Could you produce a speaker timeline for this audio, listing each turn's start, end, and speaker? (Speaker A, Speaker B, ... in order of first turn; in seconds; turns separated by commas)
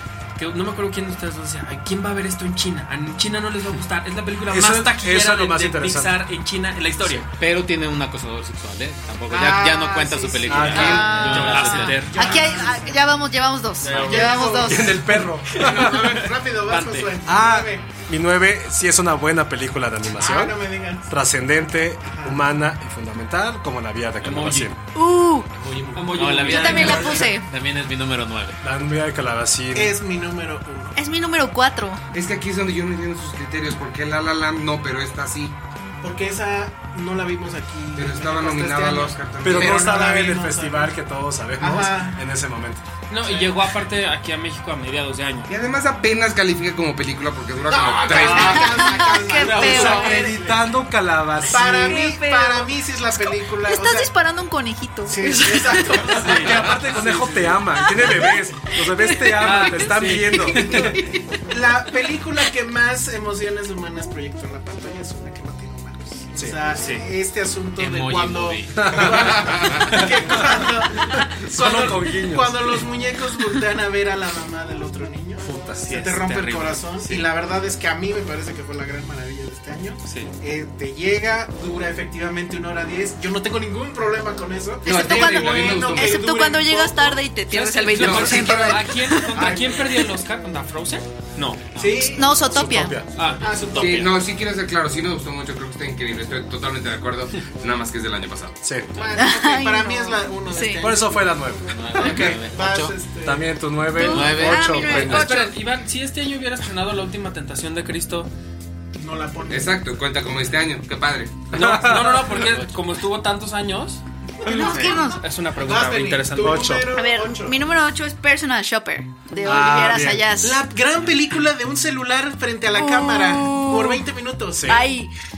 Speaker A: 0.4-7.3, Speaker B: 4.5-6.2, Speaker C: 7.4-12.0, Speaker D: 9.3-13.0, Speaker B: 10.4-11.3, Speaker E: 10.7-15.0, Speaker A: 10.9-12.4, Speaker A: 13.8-14.5, Speaker D: 13.9-17.9, Speaker B: 14.6-16.1, Speaker B: 17.2-24.8, Speaker D: 20.2-21.1, Speaker D: 22.1-22.4, Speaker A: 24.2-24.7, Speaker E: 24.9-25.5, Speaker C: 25.5-28.6, Speaker A: 25.9-27.2, Speaker E: 26.5-27.5, Speaker B: 26.8-27.2, Speaker B: 28.6-30.0, Speaker D: 29.7-31.0, Speaker E: 31.0-32.0, Speaker F: 32.1-35.6, Speaker D: 36.0-40.9, Speaker F: 38.0-40.0, Speaker B: 39.4-42.8, Speaker D: 41.6-42.2, Speaker A: 43.1-45.5, Speaker F: 45.5-48.9, Speaker D: 47.7-50.6, Speaker E: 48.2-50.3, Speaker B: 49.4-52.1, Speaker D: 51.5-54.1, Speaker E: 51.7-56.2, Speaker D: 55.1-56.7, Speaker A: 56.1-57.6, Speaker B: 56.2-61.0, Speaker E: 57.8-58.3, Speaker E: 59.0-59.4, Speaker A: 59.4-61.0, Speaker E: 60.7-61.2, Speaker D: 61.5-87.2, Speaker B: 66.3-66.7, Speaker A: 66.7-67.1, Speaker C: 67.8-69.0, Speaker B: 68.8-70.4, Speaker B: 71.0-72.8, Speaker B: 75.4-75.8, Speaker A: 75.8-77.3, Speaker A: 80.1-80.3, Speaker E: 84.8-89.4, Speaker F: 84.9-86.2, Speaker A: 87.5-91.7, Speaker F: 87.9-88.8, Speaker D: 88.1-88.7, Speaker D: 89.3-90.1, Speaker C: 91.7-92.1, Speaker D: 91.8-92.3, Speaker E: 92.1-93.0, Speaker B: 92.4-93.3, Speaker A: 93.2-94.1, Speaker D: 93.4-94.2, Speaker F: 93.8-98.6, Speaker B: 98.6-98.9, Speaker D: 99.0-101.3, Speaker E: 99.2-100.8, Speaker B: 100.8-102.4, Speaker C: 101.7-103.0, Speaker D: 101.9-103.5, Speaker B: 103.2-105.4, Speaker E: 103.9-105.5, Speaker C: 104.0-105.0, Speaker A: 104.9-108.3, Speaker D: 109.0-109.9, Speaker F: 109.5-111.5, Speaker A: 111.5-116.8, Speaker B: 111.5-112.4, Speaker C: 112.2-112.8, Speaker E: 114.4-115.2, Speaker D: 114.4-117.6, Speaker B: 116.4-116.9, Speaker E: 116.9-120.6, Speaker B: 119.4-120.2, Speaker D: 120.4-124.8, Speaker E: 122.8-124.0, Speaker B: 124.5-124.8, Speaker E: 124.7-125.1